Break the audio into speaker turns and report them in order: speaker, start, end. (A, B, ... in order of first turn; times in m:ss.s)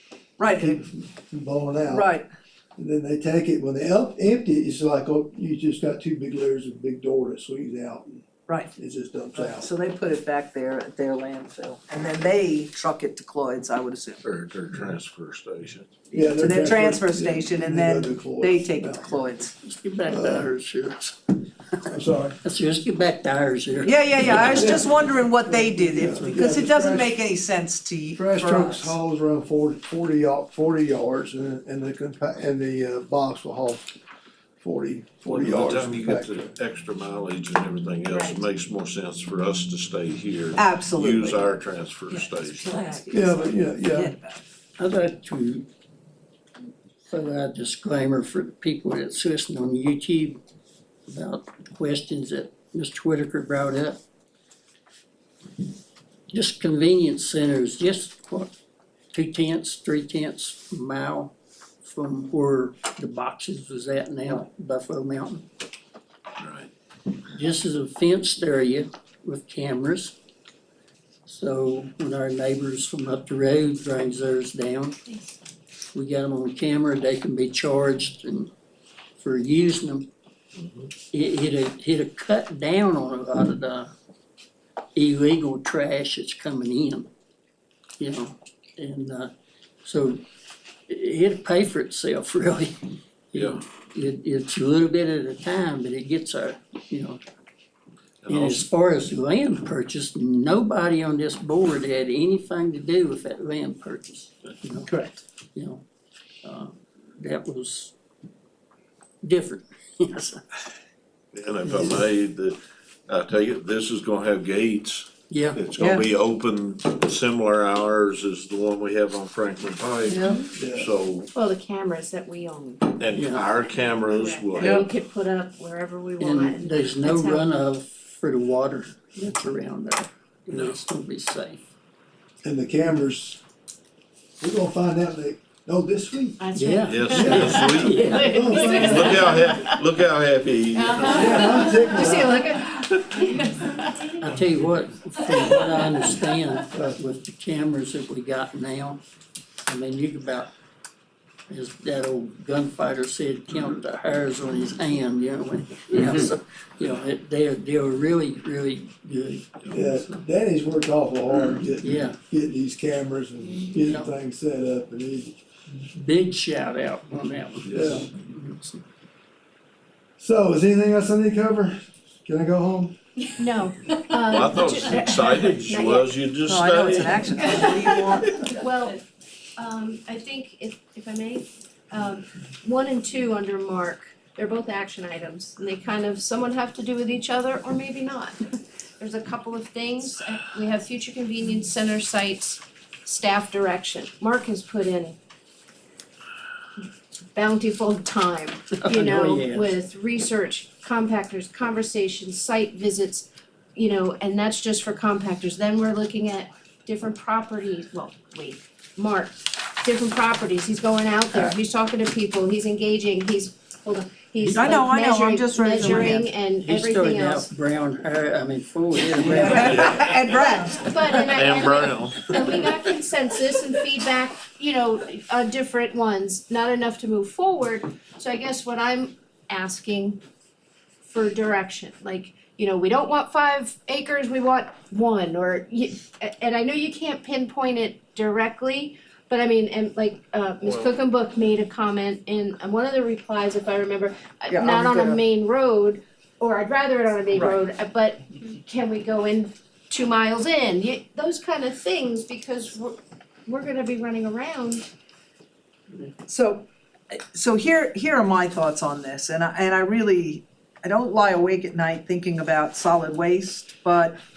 0:00.4-0:00.8 A
0:00.6-0:02.1 B
0:01.9-0:02.2 A
0:02.8-0:09.7 B
0:09.3-0:14.2 A
0:14.2-0:15.9 C
0:16.1-0:19.5 A
0:16.1-0:19.1 B
0:19.6-0:24.8 D
0:20.1-0:20.5 B
0:21.9-0:22.4 B
0:23.8-0:29.0 A
0:24.4-0:27.2 B
0:26.0-0:26.5 D
0:28.2-0:33.8 B
0:34.6-0:36.5 B
0:35.2-0:42.7 C
0:40.6-0:41.4 A
0:42.1-0:44.4 A
0:42.7-0:43.0 E
0:43.1-0:44.1 B
0:44.8-0:45.6 D
0:47.0-0:50.4 D
0:51.1-0:54.0 D
0:56.3-0:58.5 D
0:59.1-1:01.3 D
1:01.8-1:05.4 D
1:06.4-1:06.7 C
1:07.3-1:10.1 D
1:11.2-1:15.0 D
1:15.9-1:18.5 D
1:19.2-1:20.1 D
1:20.6-1:20.9 C
1:21.1-1:23.9 D
1:24.9-1:27.1 D
1:28.0-1:29.3 D
1:29.8-1:30.2 D
1:30.9-1:37.2 D
1:33.3-1:33.6 C
1:38.2-1:38.6 C
1:38.3-1:44.9 D
1:44.8-1:45.2 A
1:45.5-1:45.8 D
1:46.4-1:47.9 D
1:49.2-1:50.4 D
1:51.3-2:01.3 C
1:51.6-1:52.0 D
1:55.3-1:55.7 D
1:55.8-1:56.0 A
2:00.1-2:00.4 A
2:00.5-2:00.9 B
2:01.3-2:03.0 E
2:03.0-2:04.8 C
2:03.1-2:03.5 D
2:03.5-2:07.5 E
2:04.6-2:04.9 A
2:06.2-2:11.6 D
2:12.4-2:13.4 B
2:14.4-2:16.4 B
2:16.4-2:19.8 E
2:16.5-2:18.8 D
2:16.8-2:18.1 C
2:17.0-2:17.5 B
2:18.2-2:19.4 B
2:18.7-2:21.5 C
2:20.7-2:24.2 E
2:21.0-2:22.4 B
2:24.2-2:29.0 D
2:25.4-2:26.1 E
2:29.6-2:30.5 D
2:31.5-2:40.2 D
2:39.7-2:45.4 B
2:41.7-2:42.2 D
2:43.8-2:44.1 D
2:45.9-2:48.8 D
2:47.7-2:48.1 B
2:50.2-2:53.0 B
2:53.4-2:56.1 E
2:54.2-2:57.4 C
2:56.4-2:58.3 A
2:57.4-2:59.0 E
2:59.6-3:15.2 E
3:17.3-3:37.5 E
3:18.8-3:19.8 D
3:34.4-3:34.8 D
3:34.5-3:36.3 A
3:35.8-3:39.9 D
3:39.2-3:41.3 A
3:39.3-3:50.2 E
3:39.7-3:40.1 C
3:41.2-3:42.9 C
3:51.1-4:14.8 E
4:04.5-4:05.2 A
4:07.3-4:07.6 A
4:16.2-4:24.2 A